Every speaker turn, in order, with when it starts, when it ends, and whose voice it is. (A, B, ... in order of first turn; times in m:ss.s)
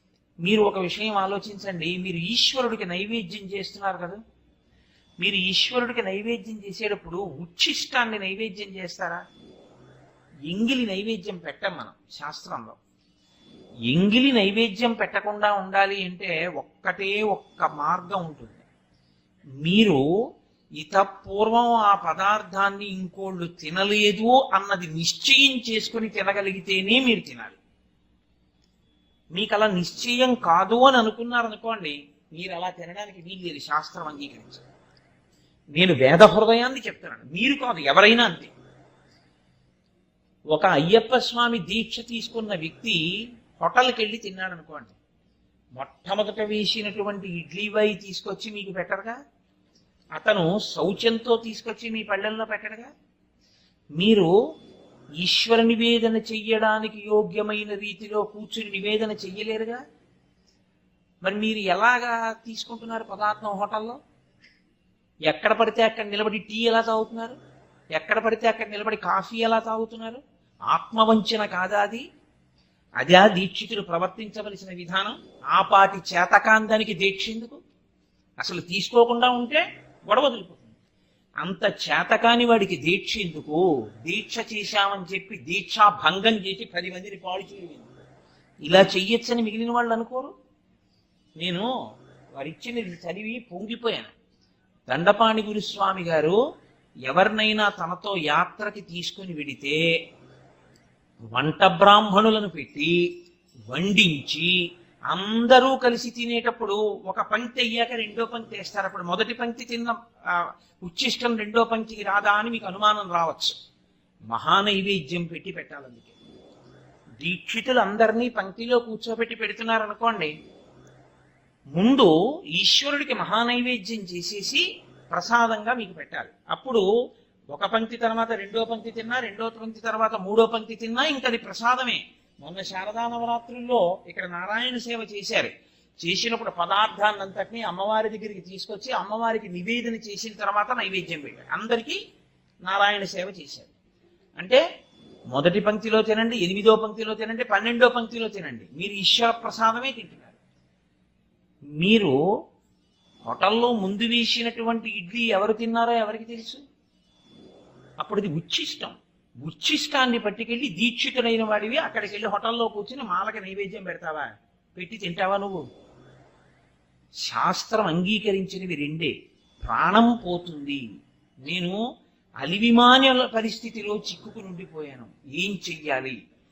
0:00.4-0:04.2 A
0:05.2-0:09.2 A
0:10.5-0:12.8 A
0:13.9-0:18.6 A
0:19.6-0:20.0 A
0:20.8-0:27.6 A
0:29.3-0:34.6 A
0:35.7-0:38.5 A
0:40.5-0:43.0 A
0:43.6-0:44.9 A
0:45.8-0:49.2 A
0:50.1-0:52.9 A
0:54.0-0:54.3 A
0:55.2-0:59.8 A
1:01.2-1:04.0 A
1:05.3-1:07.4 A
1:07.9-1:12.0 A
1:13.0-1:17.6 A
1:18.4-1:20.8 A
1:21.4-1:27.9 A
1:28.6-1:30.3 A
1:31.4-1:31.7 A
1:32.3-1:34.1 A
1:34.9-1:36.4 A
1:37.0-1:39.8 A
1:41.3-1:42.9 A
1:43.7-1:44.5 A
1:45.1-1:53.6 A
1:54.3-1:56.1 A
1:57.2-2:00.3 A
2:01.7-2:06.8 A
2:07.5-2:22.0 A
2:22.6-2:23.7 A
2:25.3-2:30.4 A
2:31.8-2:32.2 A
2:33.2-2:36.6 A
2:38.0-2:45.6 A
2:47.2-2:50.8 A
2:51.4-2:51.8 A
2:52.4-2:56.2 A